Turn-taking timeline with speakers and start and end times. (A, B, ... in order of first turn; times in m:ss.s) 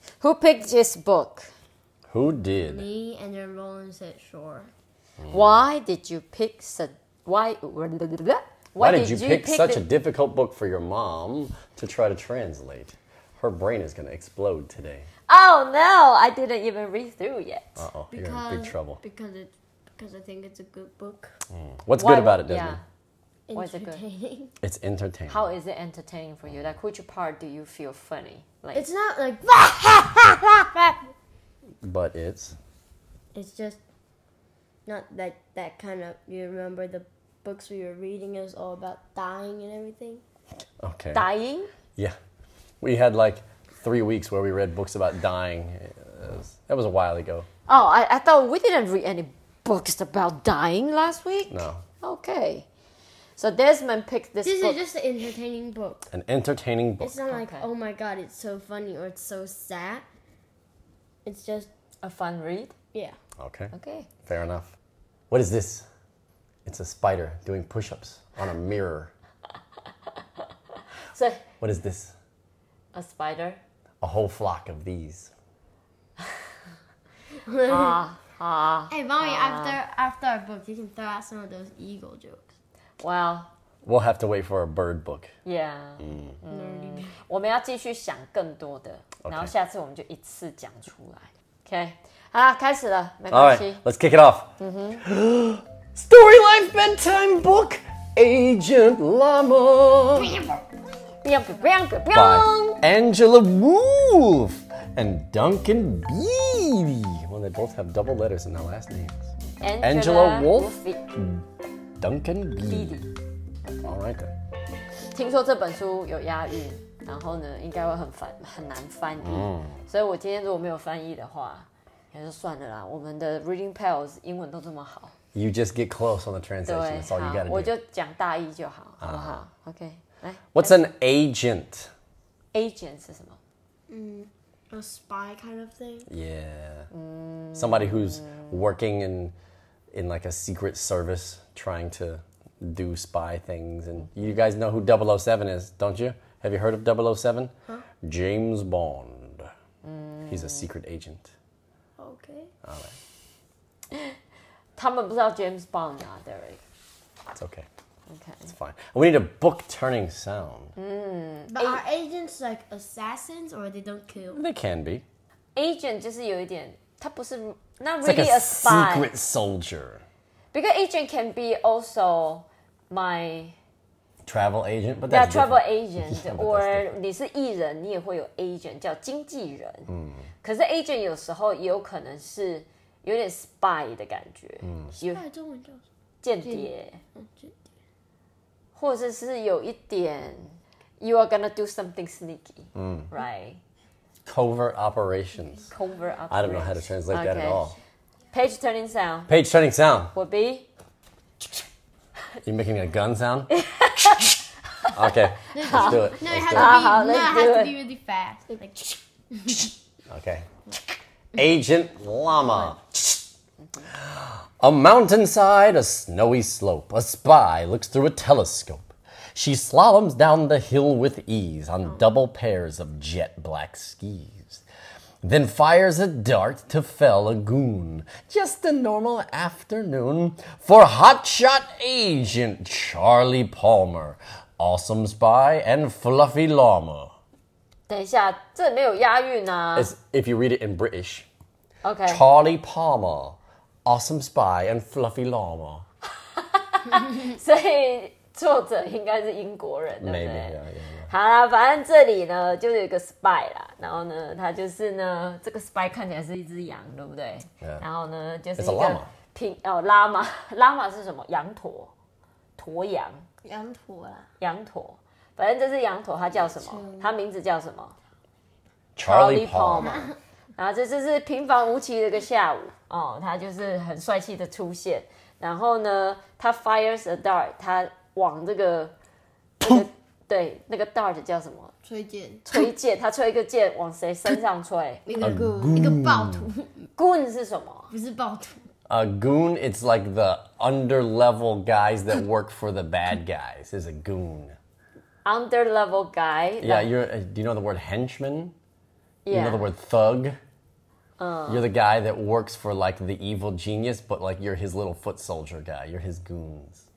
0:00.2-0:01.5 A
0:02.1-0:02.8 B
0:02.6-0:04.7 C
0:05.2-0:05.6 B
0:05.3-0:09.8 A
0:08.8-0:15.1 B
0:15.3-0:17.8 A
0:17.8-0:19.0 B
0:18.1-0:21.4 C
0:21.5-0:22.8 B
0:22.0-0:22.8 A
0:23.5-0:24.5 C
0:23.5-0:24.0 A
0:24.6-0:25.4 B
0:25.3-0:28.8 A
0:28.7-0:31.0 C
0:31.8-0:32.6 B
0:33.3-0:33.8 C
0:34.8-0:40.2 C
0:40.8-0:41.2 B
0:41.1-0:41.7 A
0:42.8-0:47.5 B
0:47.7-0:52.7 A
0:51.5-0:51.8 B
0:53.4-0:54.8 A
0:54.4-0:56.1 C
0:56.1-0:57.2 B
0:57.0-1:00.0 C
0:57.3-0:57.6 A
1:01.2-1:01.7 C
1:02.0-1:02.7 A
1:03.4-1:03.7 B
1:03.7-1:04.1 A
1:04.2-1:04.7 B
1:05.3-1:05.8 B
1:06.6-1:09.1 B
1:11.1-1:11.4 A
1:11.6-1:12.1 B
1:12.9-1:13.6 A
1:14.0-1:15.3 B
1:17.4-1:18.0 C
1:17.7-1:19.8 A
1:18.9-1:22.5 C
1:23.0-1:23.5 A
1:23.8-1:25.3 B
1:25.4-1:33.8 A
1:26.0-1:26.4 B
1:26.5-1:27.1 C
1:29.2-1:29.5 B
1:33.3-1:40.6 B
1:34.6-1:35.0 A
1:41.2-1:42.8 A
1:42.1-1:49.3 B
1:49.6-1:51.0 A
1:49.8-1:51.4 B
1:52.0-1:53.0 B
1:52.6-1:53.1 A
1:53.8-1:54.3 B
1:55.1-2:05.1 A
1:59.2-1:59.8 B
2:05.3-2:07.7 B
2:06.6-2:10.9 A
2:09.0-2:09.4 B
2:10.5-2:11.9 B
2:12.5-2:13.4 A
2:13.9-2:16.1 C
2:16.1-2:16.9 B
2:16.9-2:18.5 A
2:17.5-2:19.3 B
2:19.9-2:29.5 B
2:29.8-2:30.7 A
2:30.3-2:31.3 B
2:32.0-2:32.5 C
2:32.6-2:33.0 B
2:34.8-2:36.6 A
2:37.3-2:37.6 B
2:38.1-2:38.5 A
2:38.5-2:40.7 B
2:40.8-2:41.8 A
2:41.5-2:44.4 C
2:44.3-2:45.0 B
2:45.6-2:49.1 A
2:48.0-2:50.0 B
2:50.5-2:53.5 A
2:54.2-2:56.9 B
2:55.1-2:59.9 A
2:59.9-3:00.2 B
3:00.4-3:05.2 A
3:04.6-3:04.9 B
3:05.0-3:05.8 C
3:06.2-3:07.0 A
3:06.4-3:07.6 C
3:08.8-3:13.6 A
3:12.7-3:13.1 B
3:14.2-3:15.6 B
3:15.7-3:17.7 A
3:16.3-3:17.7 B
3:18.3-3:19.3 A
3:19.3-3:20.1 B
3:20.1-3:20.7 A
3:22.4-3:23.5 B
3:23.5-3:24.3 A
3:24.9-3:26.9 B
3:25.5-3:29.7 C
3:25.6-3:27.8 A
3:30.1-3:30.7 B
3:31.3-3:33.2 B
3:34.0-3:44.6 B
3:45.2-3:57.1 B
3:57.9-3:59.9 A
3:59.7-4:01.3 B
4:01.8-4:02.2 A
4:02.1-4:05.8 B
4:06.4-4:10.6 A
4:10.0-4:11.1 B
4:11.1-4:21.9 A
4:18.6-4:19.1 B
4:22.6-4:23.2 A
4:23.4-4:24.3 C
4:24.4-4:27.9 A
4:26.5-4:27.1 C
4:29.0-4:30.0 B
4:29.0-4:38.9 A
4:29.8-4:30.1 C
4:39.6-4:41.7 A
4:41.8-4:42.4 C
4:42.4-4:45.3 A
4:45.0-4:46.9 C
4:45.2-4:46.5 B
4:47.0-4:47.9 A
4:47.9-4:48.6 C
4:48.9-4:54.6 B
4:55.2-4:56.9 A
4:56.6-4:58.5 B
4:59.2-4:59.6 A
4:59.3-5:00.4 B
5:01.2-5:01.6 A
5:01.5-5:06.8 B